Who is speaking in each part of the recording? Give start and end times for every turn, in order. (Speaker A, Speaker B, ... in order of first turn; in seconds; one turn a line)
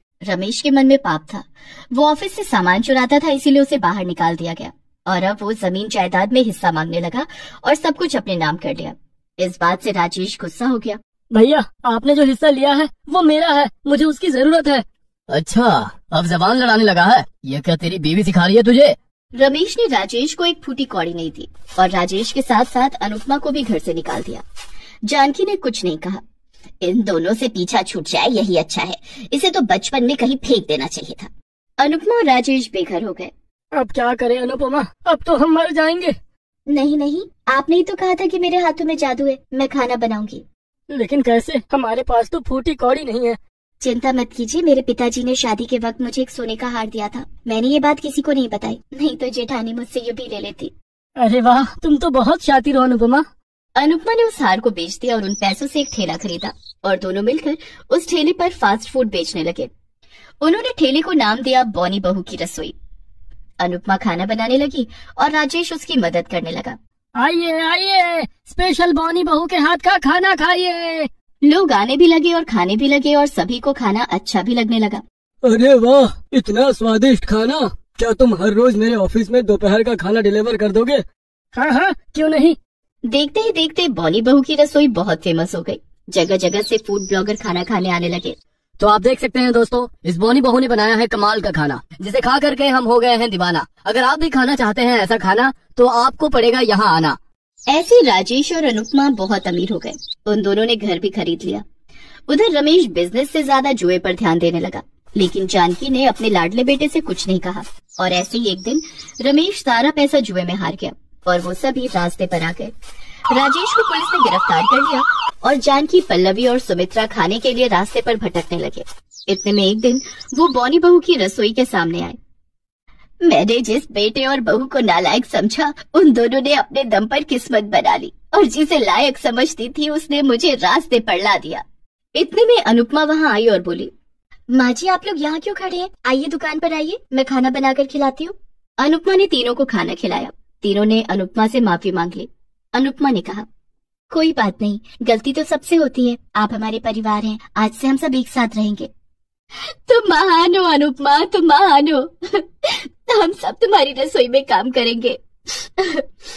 Speaker A: 0.2-11.0
Speaker B: 11.3-14.8
Speaker C: 15.3-18.9
Speaker A: 19.4-24.4
Speaker A: 25.1-26.2
Speaker A: 26.8-33.3
Speaker B: 33.7-36.2
Speaker A: 36.7-40.4
Speaker B: 40.9-43.4
Speaker A: 43.8-50.7
Speaker B: 51.2-53.3
Speaker A: 53.8-59.7
Speaker A: 60.4-62.7
Speaker A: 63.6-66.8
Speaker B: 67.2-71.1
Speaker A: 71.4-75.0
Speaker B: 75.4-81.0
Speaker B: 81.5-82.6
Speaker A: 83.1-88.3
Speaker C: 88.8-97.2
Speaker A: 97.7-101.6
Speaker A: 102.3-112.7
Speaker A: 113.3-122.2
Speaker A: 123.2-131.6
Speaker A: 132.1-133.9
Speaker A: 134.5-143.4
Speaker A: 144.1-148.9
Speaker A: 149.8-156.1